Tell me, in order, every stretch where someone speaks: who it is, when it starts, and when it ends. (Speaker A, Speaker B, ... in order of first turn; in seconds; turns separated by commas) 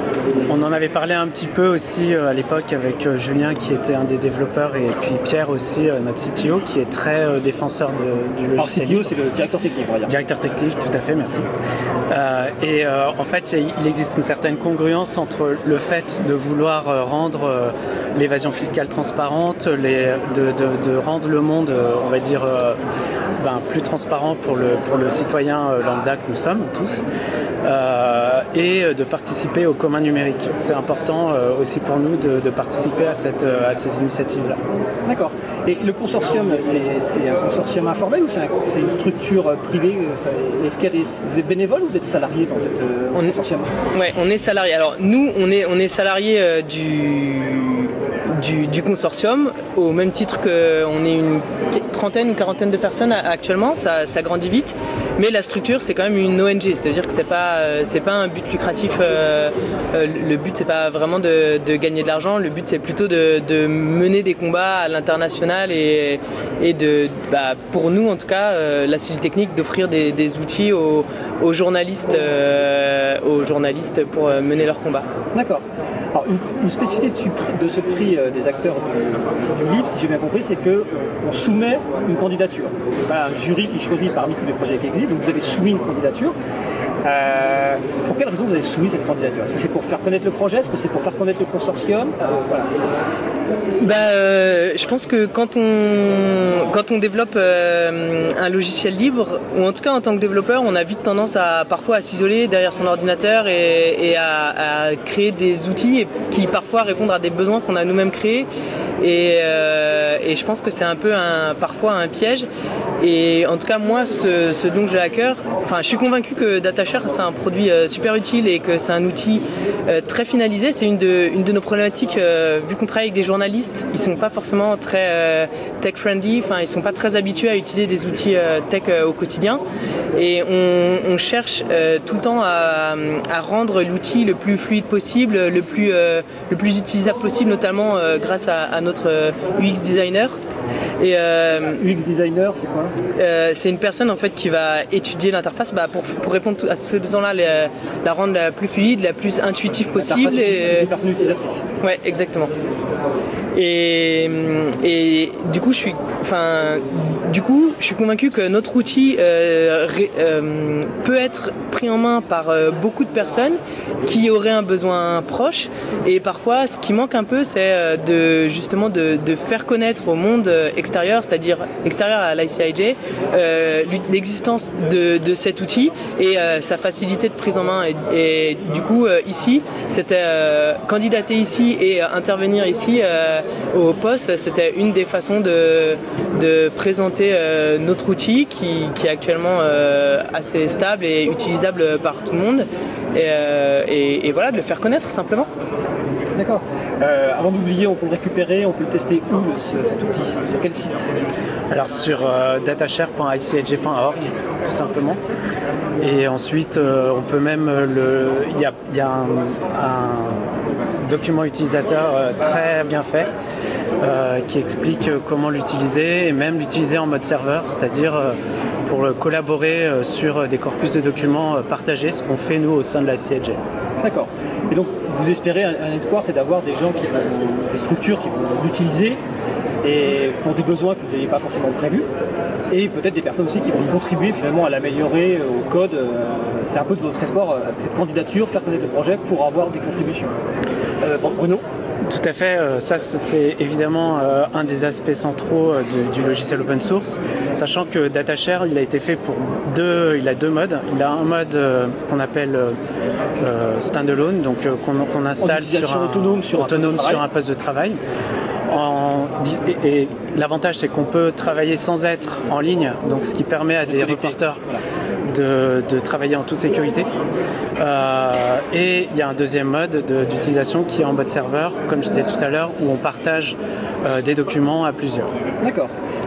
Speaker A: 0.5-9.1, Speaker B: 8.6-10.1, Speaker A: 10.1-11.5, Speaker A: 12.1-22.8, Speaker A: 23.4-27.0, Speaker A: 27.6-34.6, Speaker B: 35.0-43.7, Speaker C: 43.1-43.4, Speaker C: 43.9-75.1, Speaker B: 75.3-86.3, Speaker B: 87.0-92.7, Speaker C: 93.8-108.5, Speaker C: 109.0-112.5, Speaker C: 113.0-129.6, Speaker C: 130.1-140.4, Speaker C: 141.0-141.8, Speaker B: 141.6-142.9, Speaker C: 143.1-150.9, Speaker B: 149.9-151.7, Speaker C: 151.8-152.5, Speaker C: 153.5-195.5, Speaker B: 196.3-201.1, Speaker A: 201.7-205.2, Speaker A: 206.0-210.4, Speaker A: 211.0-213.3, Speaker A: 214.0-223.6, Speaker B: 224.0-229.2, Speaker B: 229.8-232.1, Speaker B: 232.7-240.3, Speaker B: 241.0-241.6, Speaker A: 242.0-252.8, Speaker A: 253.4-258.0, Speaker B: 255.4-257.2, Speaker A: 258.7-264.6, Speaker B: 263.8-264.8, Speaker A: 265.2-267.1, Speaker A: 267.8-275.3, Speaker B: 275.6-275.9